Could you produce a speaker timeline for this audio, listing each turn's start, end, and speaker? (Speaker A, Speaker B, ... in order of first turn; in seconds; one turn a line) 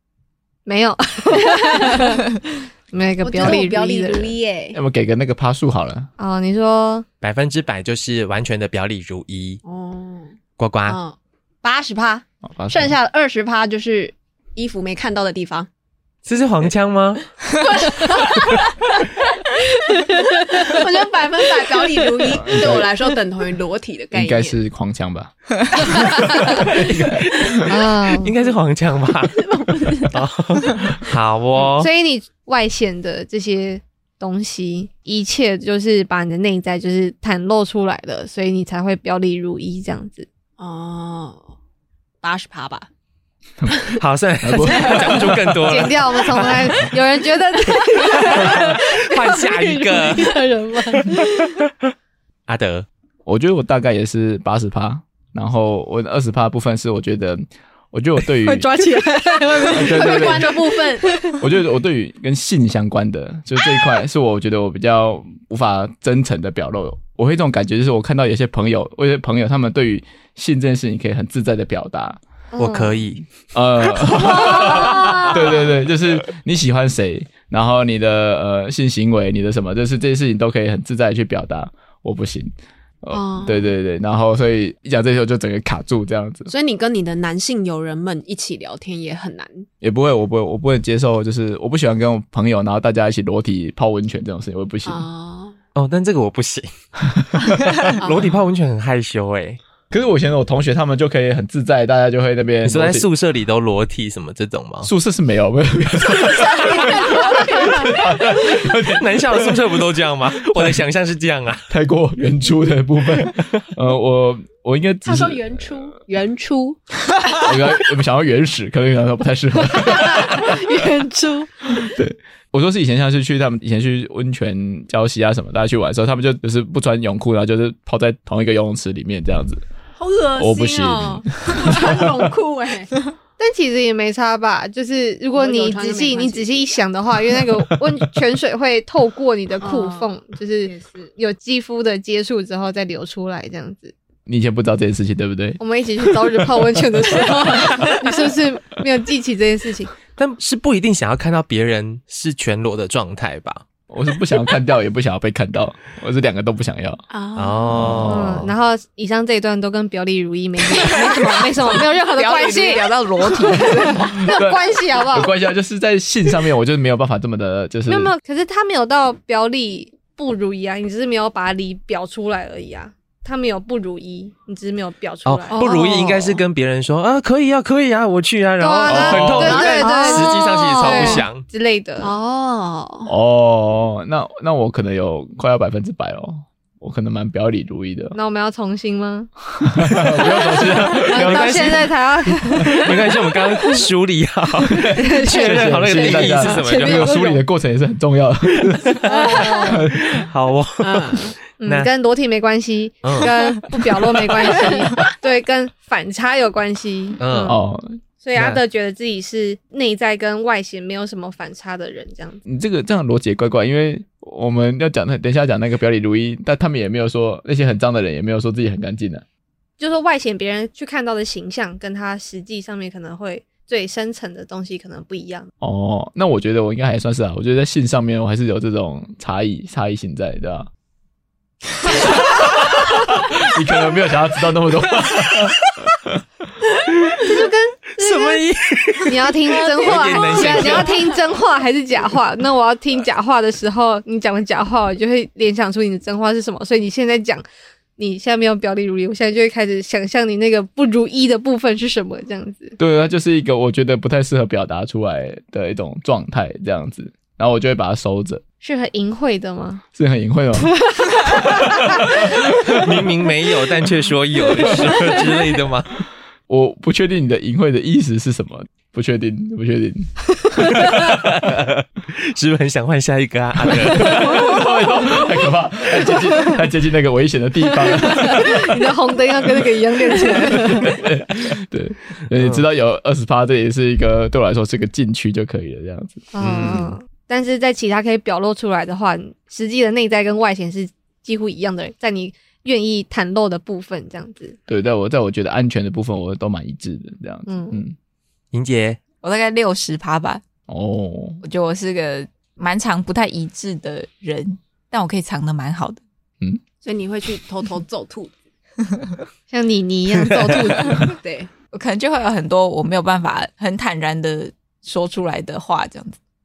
Speaker A: 0.7-2.4
Speaker B: 1.5-2.0
Speaker A: 2.9-4.4
Speaker B: 3.2-4.8
Speaker C: 4.7-6.1
Speaker A: 6.2-7.1
Speaker D: 7.2-9.6
Speaker B: 9.6-10.3
Speaker D: 10.6-11.0
Speaker B: 10.9-15.7
Speaker C: 12.5-12.9
Speaker D: 16.2-17.3
Speaker B: 17.6-24.6
Speaker A: 20.1-20.7
Speaker C: 22.4-22.9
Speaker C: 24.1-27.6
Speaker B: 25.7-26.7
Speaker D: 26.7-31.9
Speaker A: 27.6-28.4
Speaker B: 29.4-30.2
Speaker A: 31.8-40.3
Speaker B: 40.6-41.5
Speaker B: 42.2-42.9
Speaker C: 43.6-45.9
Speaker B: 43.7-44.0
Speaker D: 44.0-46.8
Speaker B: 44.7-45.2
Speaker A: 45.7-51.6
Speaker D: 48.2-50.4
Speaker D: 52.5-52.9
Speaker C: 53.3-58.7
Speaker A: 58.5-61.4
Speaker B: 59.6-61.2
Speaker C: 59.7-60.6
Speaker C: 61.3-72.2
Speaker A: 72.5-73.0
Speaker D: 72.6-73.2
Speaker C: 73.5-86.5
Speaker B: 74.0-75.7
Speaker B: 83.1-83.7
Speaker B: 86.5-89.7
Speaker C: 89.8-95.1
Speaker B: 94.8-95.5
Speaker D: 95.8-96.7
Speaker C: 97.2-97.8
Speaker D: 97.8-99.6
Speaker B: 98.0-98.3
Speaker C: 99.9-103.1
Speaker D: 102.6-104.9
Speaker C: 104.8-109.8
Speaker B: 106.1-108.6
Speaker D: 108.7-111.7
Speaker C: 110.5-110.8
Speaker C: 111.7-115.7
Speaker B: 115.0-117.5
Speaker C: 117.4-120.7
Speaker A: 119.7-121.9
Speaker C: 121.8-129.6
Speaker B: 130.0-132.9
Speaker C: 130.4-132.3
Speaker A: 133.4-143.9
Speaker B: 135.3-136.8
Speaker B: 139.6-140.1
Speaker B: 140.7-141.1
Speaker C: 144.3-147.8
Speaker A: 145.6-149.9
Speaker D: 150.2-153.6
Speaker C: 153.9-157.0
Speaker B: 157.1-158.0
Speaker D: 157.4-158.5
Speaker C: 157.8-158.4
Speaker A: 158.0-165.3
Speaker B: 160.8-164.4
Speaker C: 164.3-168.1
Speaker A: 167.9-175.7
Speaker D: 175.3-181.4
Speaker B: 175.5-176.4
Speaker A: 178.6-182.1
Speaker C: 178.9-179.8
Speaker B: 179.4-181.3
Speaker B: 182.0-183.1
Speaker C: 183.1-188.2
Speaker A: 188.1-189.3
Speaker C: 189.6-191.8
Speaker A: 190.2-193.0
Speaker D: 191.0-191.9
Speaker D: 192.6-197.3
Speaker C: 194.7-200.3
Speaker A: 194.9-197.4
Speaker A: 199.1-199.8
Speaker D: 199.1-201.9
Speaker B: 200.8-201.3
Speaker A: 201.6-207.6
Speaker D: 203.1-203.3
Speaker D: 207.2-207.6
Speaker C: 207.4-207.9
Speaker A: 208.2-212.4
Speaker D: 208.3-208.6
Speaker C: 212.4-219.2
Speaker A: 219.8-225.5
Speaker C: 225.6-230.7
Speaker C: 231.9-236.2
Speaker A: 237.2-238.4
Speaker D: 238.0-241.0
Speaker A: 239.1-247.4
Speaker B: 239.4-241.3
Speaker A: 248.0-252.8
Speaker C: 252.8-258.4
Speaker A: 258.6-259.8
Speaker C: 259.9-262.9
Speaker A: 260.9-261.8
Speaker D: 262.4-266.0
Speaker C: 264.6-265.1
Speaker C: 266.5-271.2
Speaker A: 270.6-270.9
Speaker D: 271.0-274.5
Speaker C: 273.7-278.9
Speaker A: 274.3-274.6
Speaker A: 277.9-281.0
Speaker C: 280.1-287.0
Speaker D: 282.3-282.6
Speaker A: 286.3-294.6
Speaker D: 286.4-286.9
Speaker C: 294.7-297.9
Speaker A: 297.5-297.8
Speaker D: 298.5-299.0
Speaker E: 299.2-300.4
Speaker C: 300.7-301.4
Speaker E: 301.4-306.0
Speaker B: 306.8-308.4
Speaker A: 309.5-311.1
Speaker B: 311.1-311.5
Speaker E: 311.7-316.2